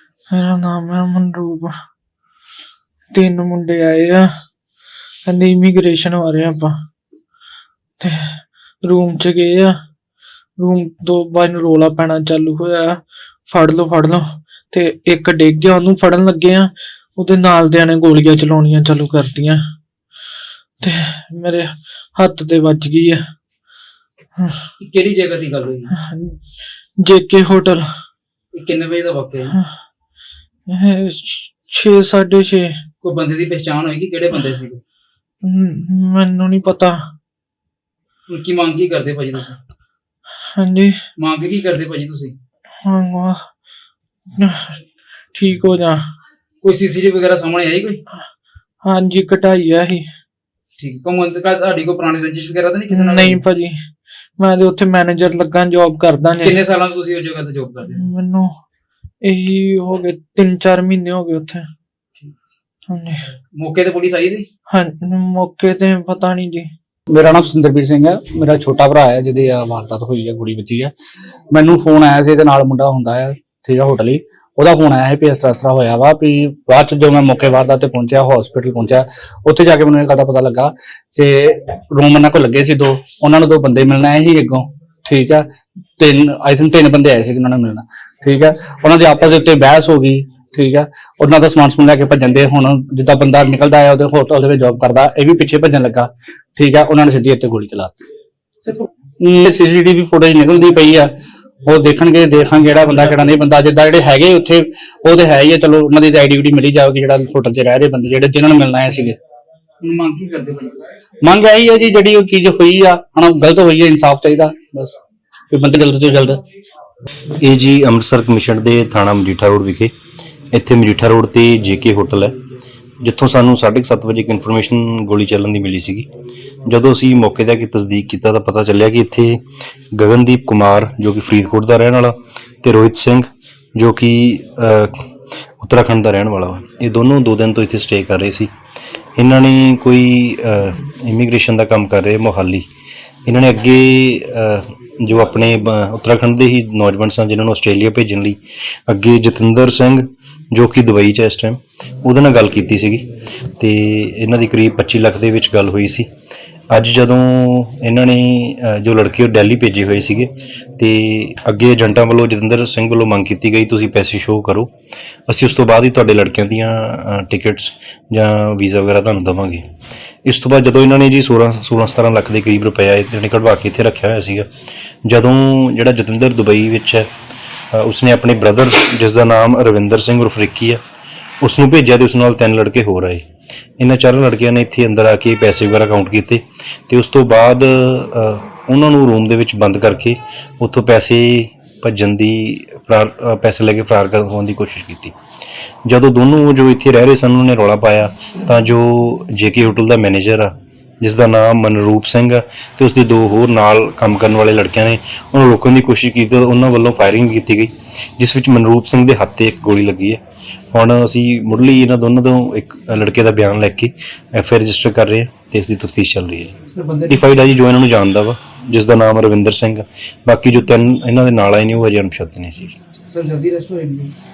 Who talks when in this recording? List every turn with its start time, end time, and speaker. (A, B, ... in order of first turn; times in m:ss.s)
0:00.3-0:01.7 A
0:03.1-0:04.3 A
0:05.2-0:06.8 A
0:08.0-0:09.7 A
0:10.6-0:19.6 A
0:20.8-0:23.2 A
0:24.4-0:24.6 A
0:24.8-0:25.9 B
0:25.9-0:26.4 A
0:27.0-0:27.8 A
0:28.5-0:29.5 B
0:30.7-0:32.7 A
0:33.0-0:34.8 B
0:35.4-0:37.0 A
0:38.3-0:39.6 B
0:40.5-0:41.0 A
0:41.2-0:42.3 B
0:42.8-0:43.4 A
0:44.4-0:44.8 A
0:45.3-0:46.0 A
0:46.6-0:48.0 B
0:48.8-0:50.0 A
0:50.8-0:53.4 B
0:52.9-0:53.8 A
0:54.4-0:56.6 A
0:56.4-0:58.0 B
0:57.9-0:58.5 A
0:59.2-1:01.6 A
1:02.9-1:03.2 A
1:03.5-1:04.4 B
1:04.7-1:06.7 A
1:07.1-1:10.9 C
1:11.5-1:25.4 C
1:26.0-1:38.0 C
1:38.7-1:41.1 C
1:41.6-1:49.2 C
1:49.8-1:50.9 B
1:51.2-1:55.0 C
1:55.5-1:56.4 C
1:57.4-1:59.9 D
2:00.5-2:02.4 D
2:03.0-2:06.1 D
2:06.6-2:15.0 D
2:15.6-2:18.5 D
2:19.2-2:22.6 D
2:23.2-2:36.1 D
2:36.7-2:44.7 D
2:45.3-2:49.6 D
2:50.2-2:54.5 D
2:55.0-2:57.1 D
2:57.7-3:00.8 D
3:01.4-3:03.2 D
3:03.8-3:15.1 D
3:15.8-3:30.2 D
3:30.7-3:36.5 D
3:36.7-3:37.2 B
3:37.1-3:42.8 D
3:43.1-3:44.1 B